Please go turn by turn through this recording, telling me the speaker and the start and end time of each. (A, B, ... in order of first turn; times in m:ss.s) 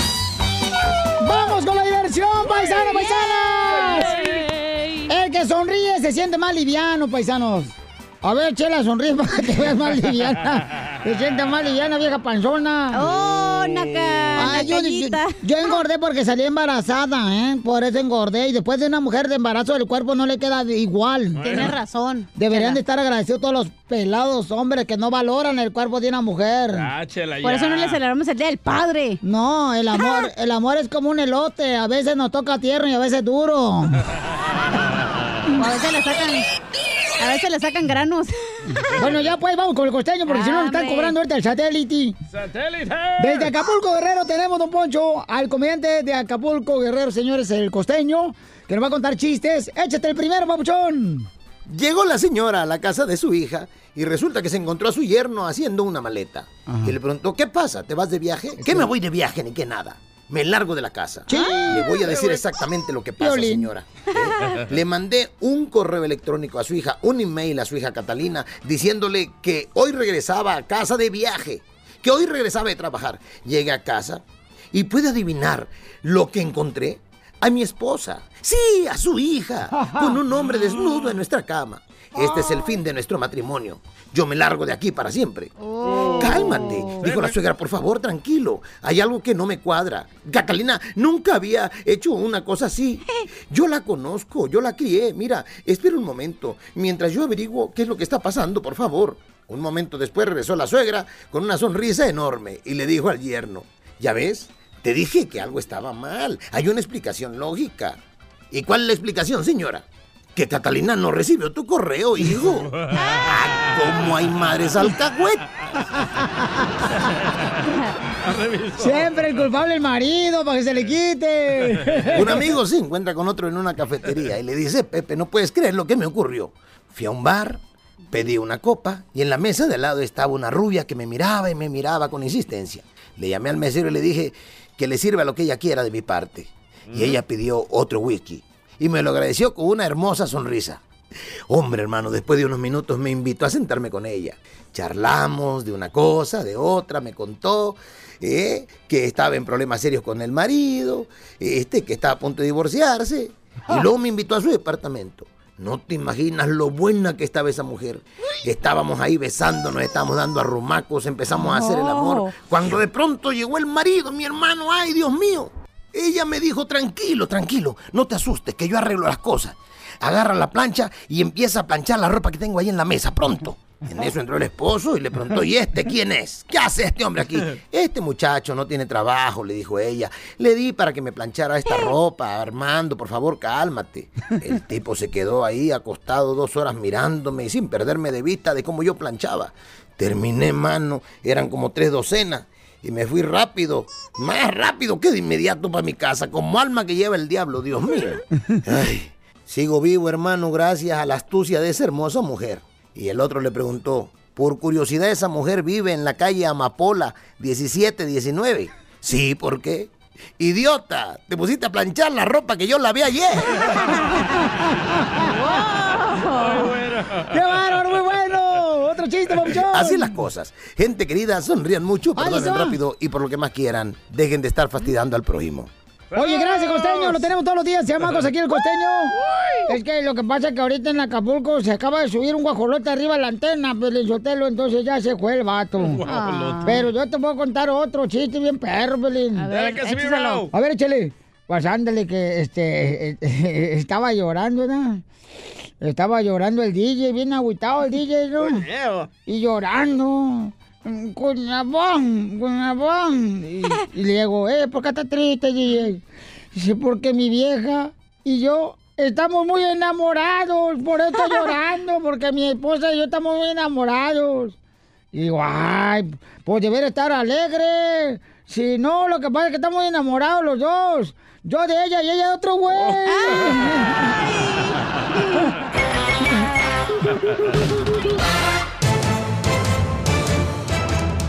0:01.2-0:04.1 A
0:02.5-0:05.1 B
0:05.1-0:13.1 A
0:12.9-0:15.4 B
0:13.0-0:14.5 C
0:14.4-0:21.4 A
0:21.4-0:21.8 C
0:21.4-0:22.8 B
0:22.4-0:26.9 A
0:26.7-0:28.0 C
0:27.4-0:29.2 B
0:29.2-0:34.0 A
0:35.6-0:36.5 B
0:37.2-0:38.6 B
0:39.0-0:42.2 A
0:39.0-0:39.3 C
0:40.3-0:41.2 B
0:42.3-0:43.5 C
0:43.2-0:51.3 A
0:51.7-1:25.5 D
0:56.7-0:57.0 A
0:58.6-0:58.9 A
1:01.3-1:02.2 A
1:03.2-1:03.7 A
1:19.7-1:20.2 A
1:20.4-1:21.1 C
1:25.6-1:27.0 B
1:26.2-1:48.0 D
1:27.0-1:27.4 C
1:48.5-1:55.4 D
1:52.5-1:54.0 C
1:58.2-1:59.4 C
1:58.8-2:02.4 A
2:01.7-2:02.3 C
2:02.1-2:20.8 D
2:16.9-2:17.2 C
2:21.5-3:33.8 D
2:41.4-2:42.3 B
3:35.2-3:36.7 B
3:36.2-3:37.8 C
3:37.3-3:40.2 A
3:39.7-3:45.7 D
3:42.2-3:42.8 A
3:46.1-3:47.3 C
3:46.2-3:49.2 A
3:49.2-3:49.6 C
3:49.7-3:56.0 A
3:55.8-3:56.8 C
3:56.1-3:56.8 B
3:56.6-3:59.5 A
3:59.4-4:00.5 B
3:59.5-4:00.5 C
4:00.5-4:05.0 A
4:05.8-4:08.6 A
4:08.4-4:09.1 C
4:09.3-4:16.0 A
4:16.5-4:24.6 A
4:25.1-4:34.1 A
4:32.7-4:34.2 C
4:33.1-4:33.6 B